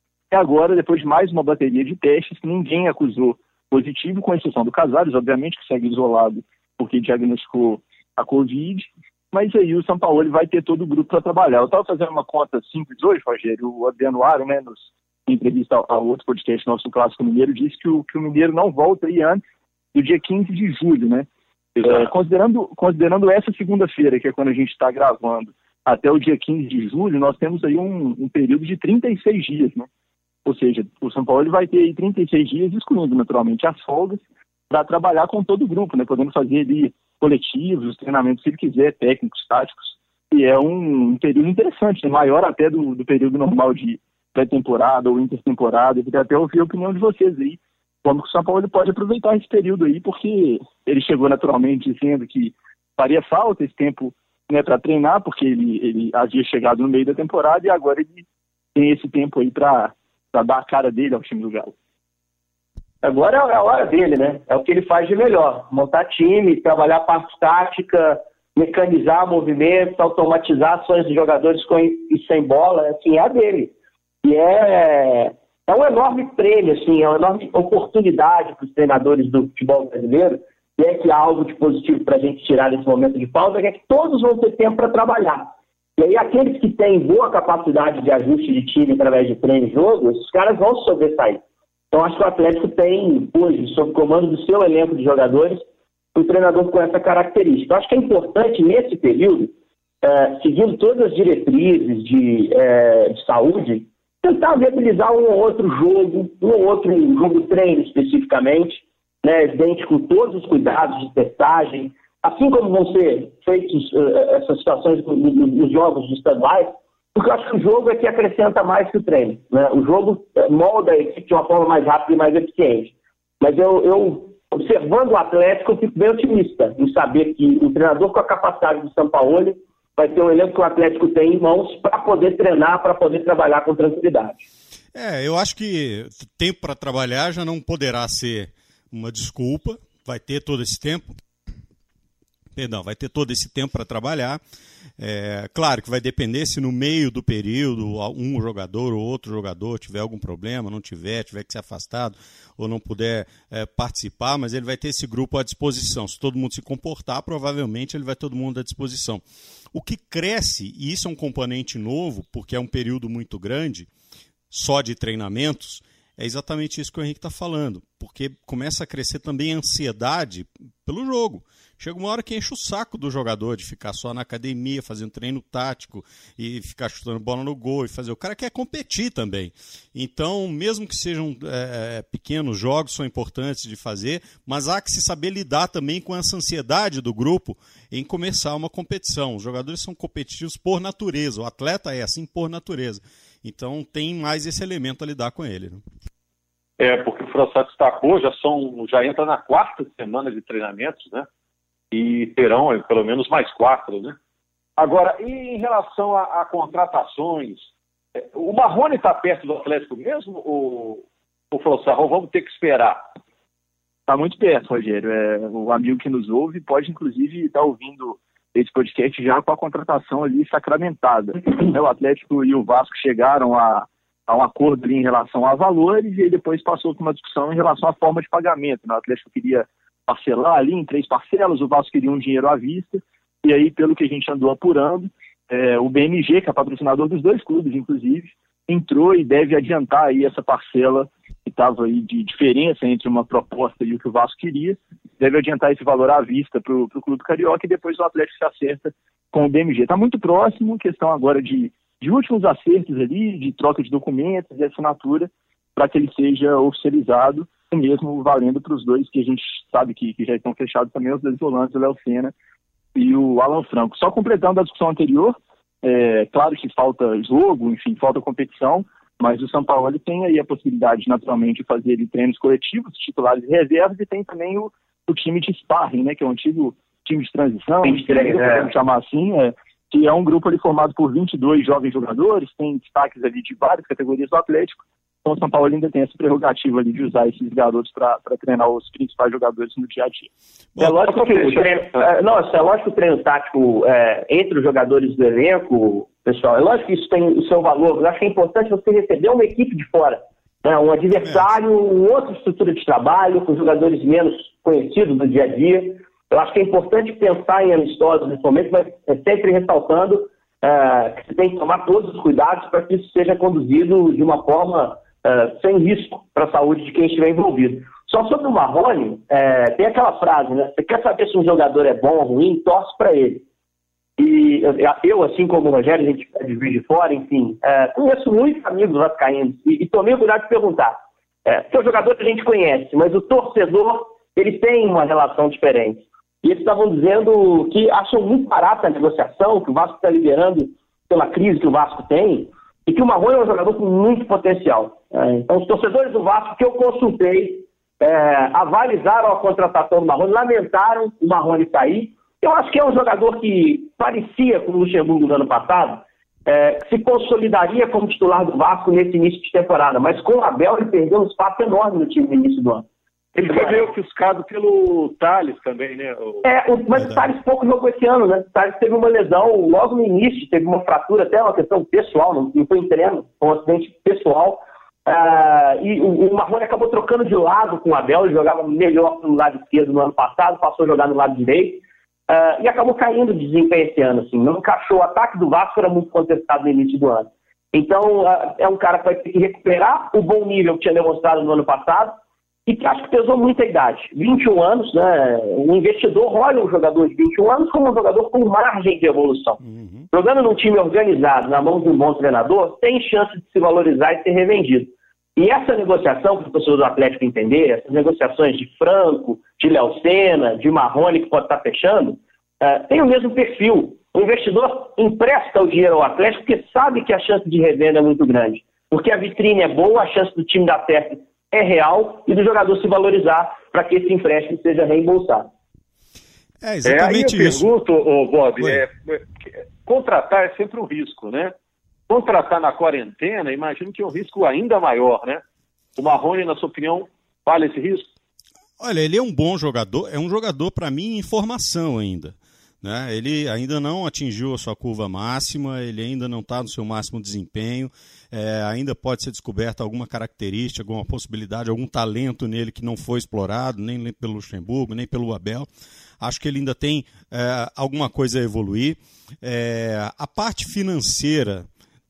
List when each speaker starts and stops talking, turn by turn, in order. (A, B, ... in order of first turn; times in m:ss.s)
0:00.3-0:19.4 A
0:19.9-0:29.9 A
0:30.4-1:01.7 A
1:03.0-2:14.4 B
2:14.9-2:21.1 C
2:22.5-2:24.4 C
2:25.0-2:43.9 C
2:44.5-3:15.8 C
3:16.8-3:21.3 D
3:21.9-3:24.2 D
3:24.8-3:27.6 D
3:28.2-3:33.0 D
3:34.1-4:22.3 A
4:22.9-4:50.3 A
4:37.8-4:38.7 B
4:50.7-4:51.4 C
4:50.8-5:23.4 B
5:24.2-6:02.8 B
6:03.3-6:06.4 D
6:03.4-6:03.8 B
6:06.4-6:39.6 B
6:06.9-6:07.3 C
6:39.6-6:40.1 C
6:40.1-7:05.5 B
7:06.6-7:07.7 C
7:06.8-7:09.2 D
7:08.6-7:08.8 C
7:09.8-7:11.5 D
7:12.1-7:15.4 D
7:16.0-7:18.1 D
7:18.8-7:35.7 C
7:36.2-7:41.7 C